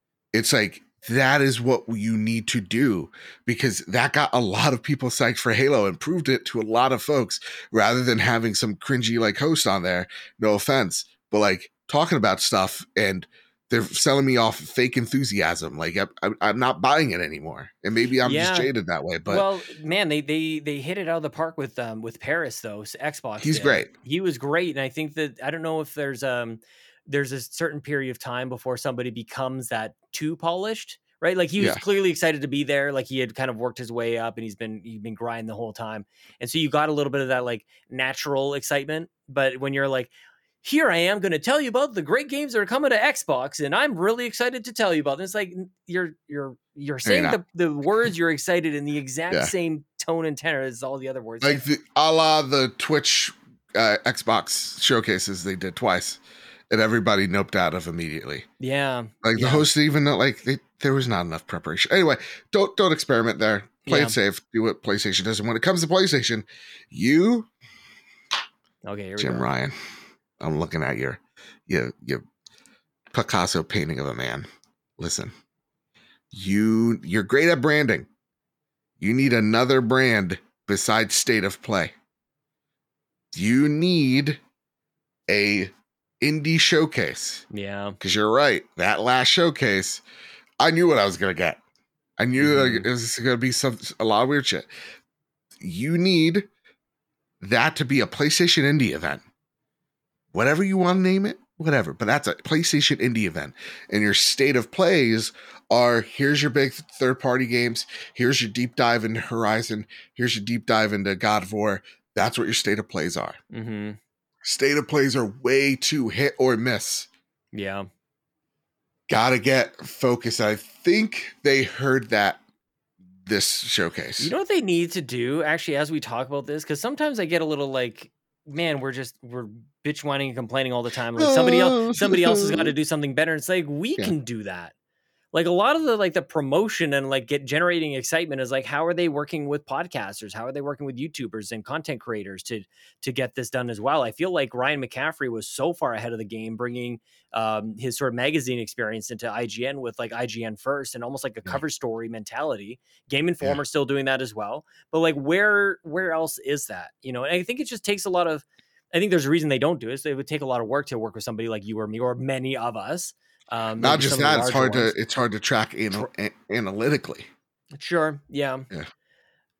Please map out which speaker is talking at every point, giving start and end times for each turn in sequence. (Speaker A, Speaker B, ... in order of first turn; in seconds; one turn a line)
Speaker A: 0.3-19.4
Speaker B: 18.2-18.7
Speaker B: 19.3-51.6
Speaker A: 23.4-23.9
Speaker A: 47.0-47.4
Speaker A: 51.4-58.5
Speaker B: 58.6-59.6
Speaker A: 59.2-67.5
Speaker B: 63.8-64.2
Speaker B: 68.8-69.5
Speaker A: 69.2-69.7
Speaker A: 70.4-72.2
Speaker A: 73.1-74.5
Speaker A: 75.0-75.3
Speaker A: 76.3-78.1
Speaker A: 79.0-81.9
Speaker A: 83.3-84.4
Speaker A: 85.3-87.4
Speaker B: 87.5-88.0
Speaker A: 88.0-90.0
Speaker A: 90.6-91.6
Speaker A: 92.2-94.7
Speaker B: 92.4-92.9
Speaker A: 95.6-96.5
Speaker A: 97.4-99.2
Speaker A: 100.3-113.4
Speaker B: 113.5-114.0
Speaker A: 114.4-117.1
Speaker B: 117.5-117.9
Speaker A: 119.1-122.4
Speaker A: 123.2-124.3
Speaker B: 124.2-134.7
Speaker A: 131.2-132.7
Speaker B: 135.3-164.9
Speaker A: 163.8-167.3
Speaker B: 167.7-168.7